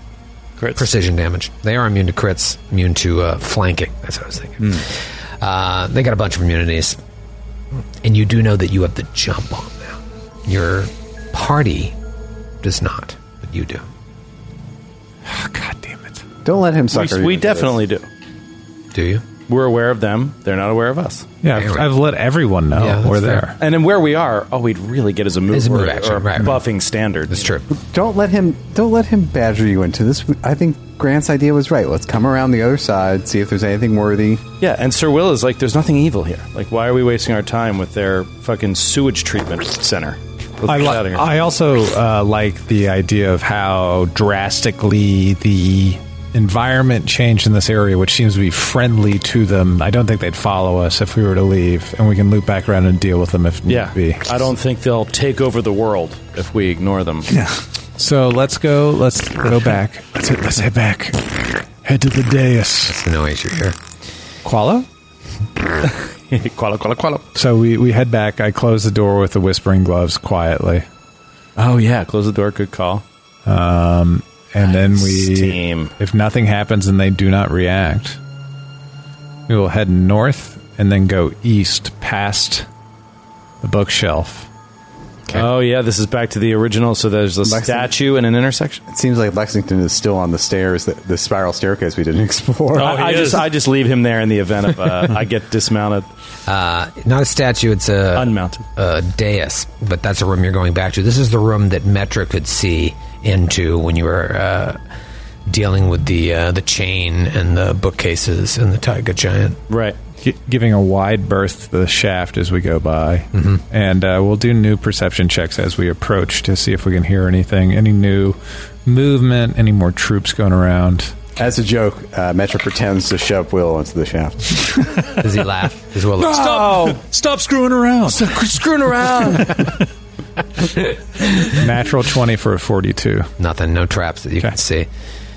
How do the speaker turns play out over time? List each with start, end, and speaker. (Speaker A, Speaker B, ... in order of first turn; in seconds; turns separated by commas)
Speaker A: 0.6-0.8, Speaker B: 0.7-7.0, Speaker B: 8.0-11.9, Speaker B: 12.6-13.8, Speaker C: 15.2-16.2, Speaker D: 16.4-17.8, Speaker E: 16.9-18.0, Speaker B: 18.9-19.2, Speaker E: 19.5-21.3, Speaker C: 21.4-23.6, Speaker B: 21.5-21.9, Speaker B: 22.7-23.5, Speaker E: 23.6-27.5, Speaker B: 25.5-26.6, Speaker B: 27.3-27.7, Speaker D: 27.7-34.4, Speaker E: 34.6-41.3, Speaker C: 40.6-54.5, Speaker E: 53.7-57.3, Speaker A: 57.3-57.6, Speaker C: 58.0-63.0, Speaker B: 62.9-63.8, Speaker C: 64.4-64.9, Speaker E: 65.8-67.3, Speaker C: 67.3-70.8, Speaker E: 71.6-73.0, Speaker C: 73.5-78.2, Speaker E: 74.6-75.9, Speaker C: 79.5-82.7, Speaker C: 83.6-84.5, Speaker E: 85.3-88.8, Speaker D: 87.4-87.9, Speaker D: 88.9-93.0, Speaker A: 92.7-93.5, Speaker E: 92.8-96.1, Speaker B: 96.5-104.8, Speaker E: 98.1-98.6, Speaker B: 105.5-109.6, Speaker E: 109.7-110.0, Speaker C: 110.2-121.2, Speaker B: 113.3-113.6, Speaker D: 121.3-124.6, Speaker B: 125.2-126.5, Speaker A: 126.2-128.3, Speaker E: 126.4-127.0, Speaker E: 128.1-129.8, Speaker C: 131.4-133.3, Speaker B: 133.4-134.9